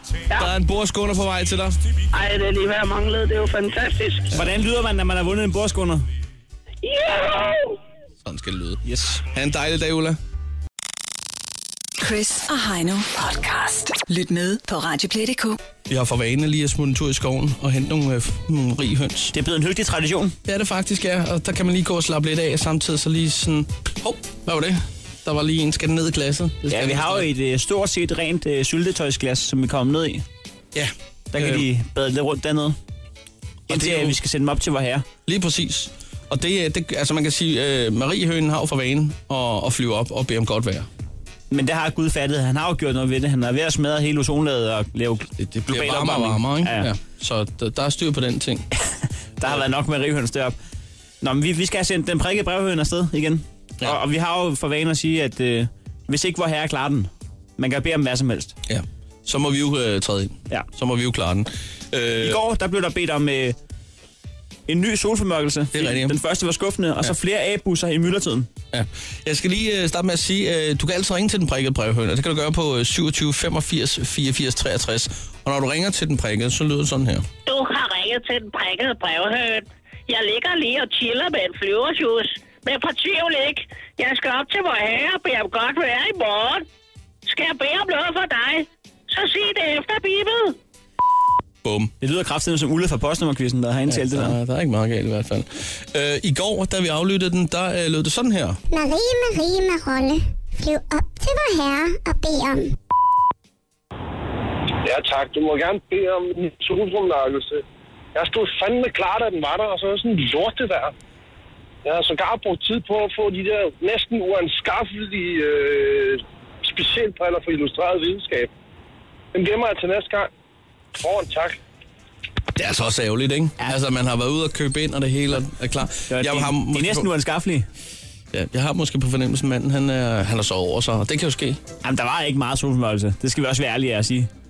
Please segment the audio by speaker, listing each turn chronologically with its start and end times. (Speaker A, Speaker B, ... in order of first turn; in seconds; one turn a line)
Speaker A: 0.3-1.8
Speaker B: 2.1-4.3
Speaker C: 4.3-6.1
Speaker B: 6.8-7.8
Speaker A: 8.2-10.2
Speaker C: 8.8-9.2
Speaker D: 12.0-15.6
Speaker A: 15.9-19.3
Speaker C: 19.3-20.4
Speaker A: 20.5-27.3
Speaker C: 26.7-30.2
Speaker A: 30.8-31.6
Speaker C: 31.3-32.8
Speaker A: 33.7-34.2
Speaker C: 33.7-35.1
Speaker A: 35.3-40.9
Speaker C: 41.5-46.9
Speaker A: 45.4-48.7
Speaker C: 49.4-50.5
Speaker C: 51.2-58.5
Speaker A: 58.7-62.4
Speaker C: 62.2-63.6
Speaker C: 64.7-68.5
Speaker A: 65.7-66.2
Speaker A: 68.7-77.3
Speaker E: 77.5-86.7
Speaker E: 87.3-90.6
Speaker A: 91.6-91.9
Speaker C: 92.0-94.4
Speaker A: 93.9-98.6
Speaker F: 98.7-102.8
Speaker G: 104.8-107.6
Speaker G: 108.2-110.9
Speaker G: 111.8-118.5
Speaker G: 119.3-120.3
Speaker G: 121.0-121.6
Speaker A: 122.6-127.1
Speaker C: 126.1-127.7
Speaker A: 128.3-131.6
Speaker C: 131.8-134.3